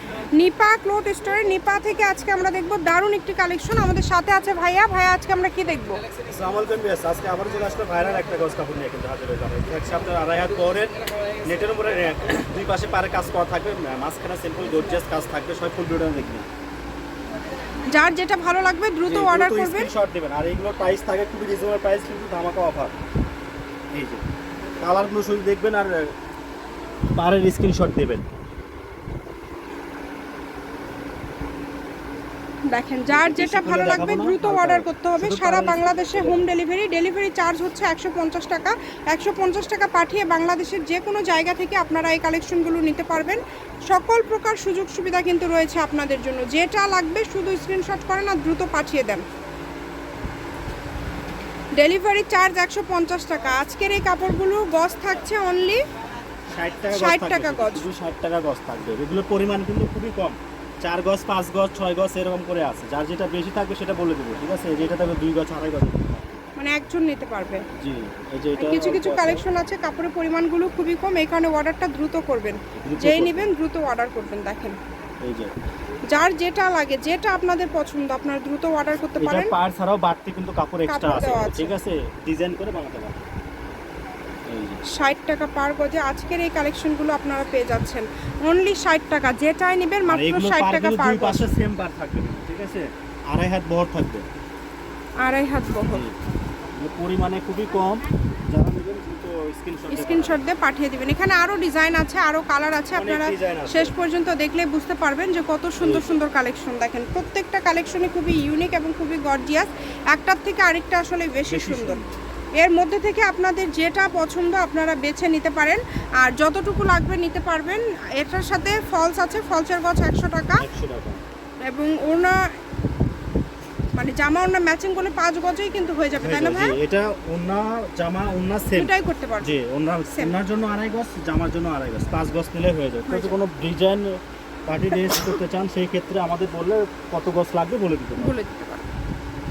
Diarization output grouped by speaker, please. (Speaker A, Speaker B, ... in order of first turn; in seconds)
Speaker A: 0.4-6.0, 17.9-19.9, 32.7-49.2, 51.8-55.8, 56.9-57.9, 66.5-67.7, 68.6-74.8, 76.1-79.5, 80.9-81.7, 84.9-91.5, 95.2-96.0, 99.9-112.0, 112.6-120.6, 121.6-122.4, 123.9-126.8, 128.7-129.5, 133.1-133.4, 134.9-135.4, 138.2-138.9
Speaker B: 6.2-16.5, 19.1-22.9, 23.9-24.2, 24.8-26.1, 27.1-28.2, 33.1-36.4, 56.5-66.4, 67.8-69.4, 72.7-73.5, 75.2-75.5, 79.2-83.2, 84.5-84.8, 90.0-94.2, 95.9-96.1, 96.8-100.4, 102.9-103.9, 105.8-106.2, 111.5-112.2, 120.5-121.2, 126.2-138.3